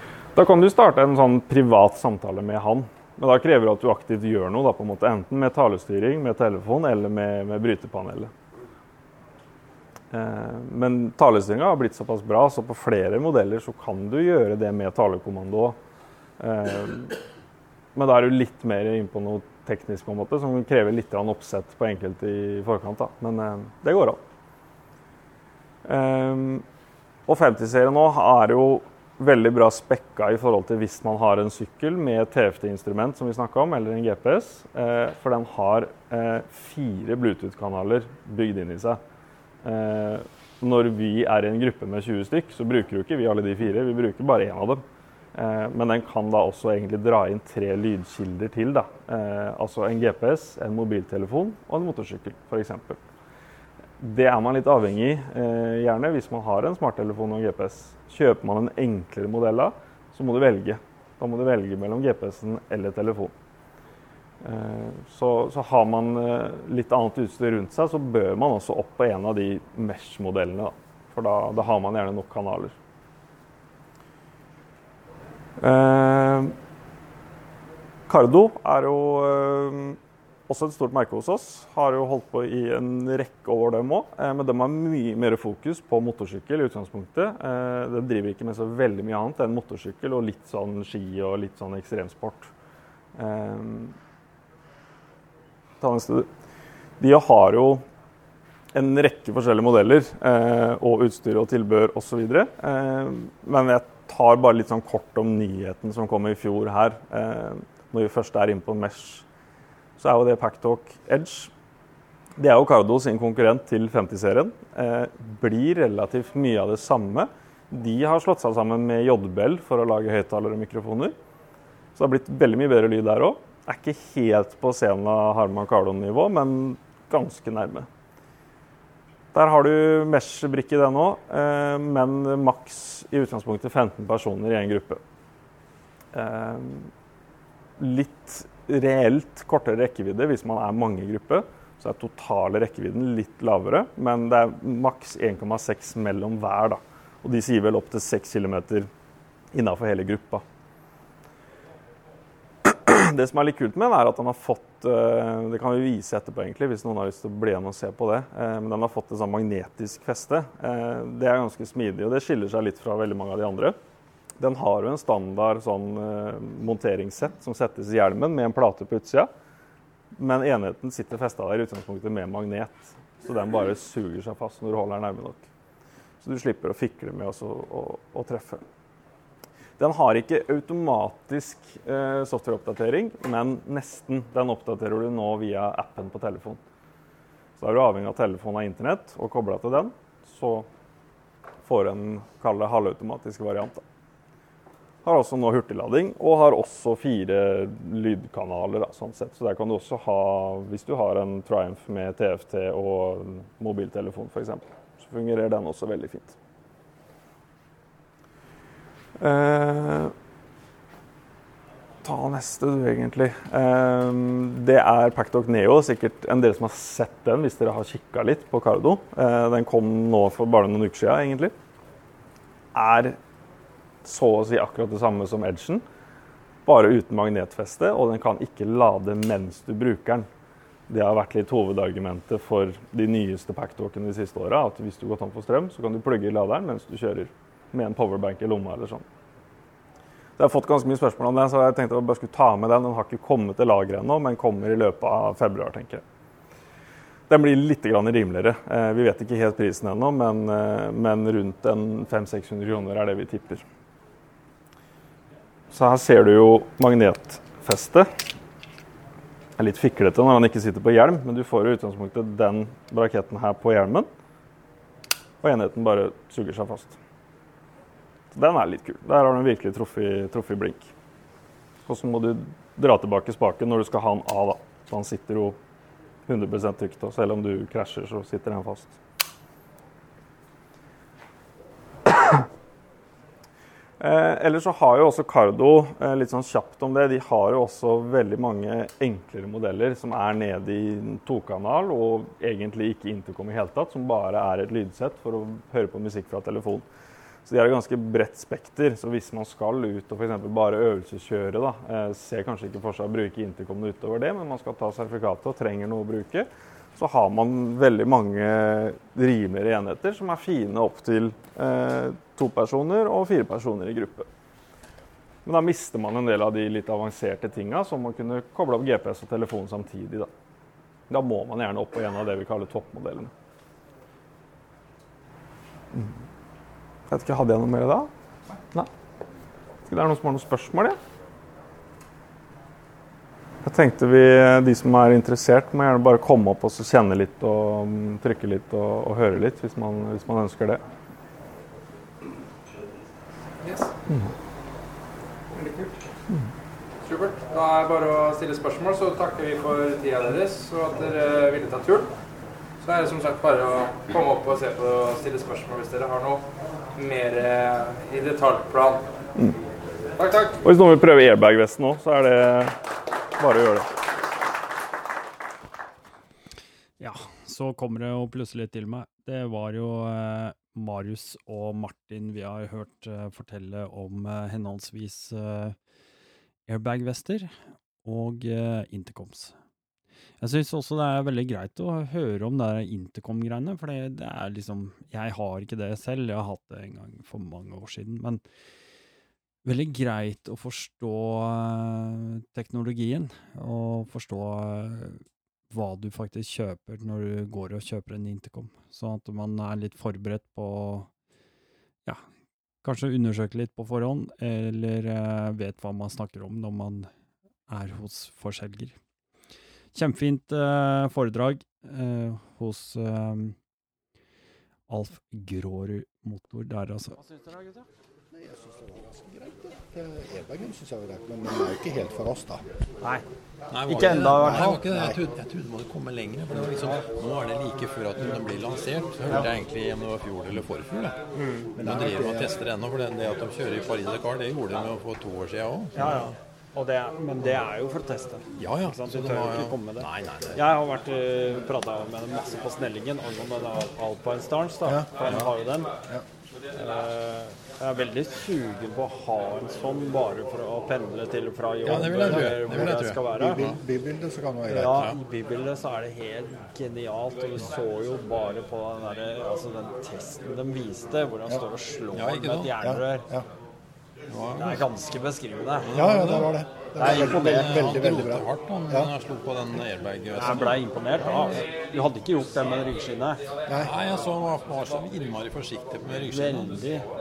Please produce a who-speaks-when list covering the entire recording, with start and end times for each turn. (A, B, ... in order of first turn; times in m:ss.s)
0:00.4-0:08.3 A
0:10.1-0:15.8 A
0:16.4-0:17.2 A
0:17.9-0:24.2 A
0:25.8-0:26.6 A
0:27.3-0:39.0 A
0:39.6-0:44.8 A
0:45.3-0:53.0 A
0:54.0-1:03.3 A
1:04.4-1:12.7 A
1:15.6-1:16.6 A
1:18.1-1:32.5 A
1:33.2-1:34.0 A
1:35.8-1:36.3 A
1:37.0-1:37.8 A
1:38.7-1:49.2 A
1:50.0-1:51.5 A
1:52.4-2:01.1 A
2:02.0-2:07.9 A
2:09.3-2:15.0 A
2:16.1-2:16.9 A
2:17.8-2:28.9 A
2:29.5-2:30.4 A
2:32.6-2:43.8 A
2:44.4-2:49.3 A
2:50.2-2:55.4 A
2:56.2-2:58.6 A
2:59.8-3:06.6 A
3:07.6-3:10.7 A
3:11.6-3:13.8 A
3:15.0-3:26.4 A
3:29.2-3:30.1 A
3:32.0-3:41.5 A
3:42.7-3:43.2 A
3:44.0-3:45.8 A
3:46.6-3:50.3 A
3:50.9-3:59.0 A
4:00.4-4:06.0 A
4:07.3-4:13.6 A
4:15.7-4:18.1 A
4:19.6-4:24.1 A
4:25.4-4:27.0 A
4:28.3-4:30.9 A
4:31.9-4:35.6 A
4:36.3-4:39.0 A
4:44.0-4:56.8 A
4:57.4-5:14.3 A
5:15.4-5:20.3 A
5:21.1-5:23.3 A
5:27.1-5:28.1 A
5:29.9-5:31.0 A
5:33.6-5:40.8 A
5:43.6-5:43.9 B
5:45.6-5:45.9 B
5:47.0-5:52.1 B
5:52.8-5:56.4 B
5:57.0-5:59.0 B
6:00.2-6:00.6 B
6:00.6-6:02.8 A
6:03.4-6:03.9 A
6:07.0-6:15.8 C
6:16.7-6:17.5 C
6:18.0-6:19.5 C
6:20.4-6:28.4 C
6:29.6-6:41.1 C
6:42.8-6:47.1 C
6:47.7-6:48.9 C
6:49.9-6:53.6 C
6:54.9-6:57.2 C
6:58.3-7:02.6 D
7:03.7-7:11.2 E
7:03.9-7:04.8 C
7:04.3-7:05.2 D
7:11.8-7:12.5 D
7:11.8-7:16.3 E
7:16.0-7:25.8 C
7:18.6-7:20.6 E
7:24.8-7:25.3 D
7:26.8-7:33.6 C
7:31.8-7:33.8 E
7:32.3-7:35.1 D
7:34.7-7:43.2 C
7:34.9-7:35.2 E
7:42.1-7:42.8 E
7:42.8-7:43.4 D
7:44.3-7:44.8 E
7:44.6-7:45.9 C
7:45.8-7:51.6 E
7:45.9-7:49.1 D
7:47.0-7:47.7 C
7:50.4-7:53.4 C
7:53.7-7:53.9 D
7:53.8-7:56.8 E
7:56.3-7:57.0 C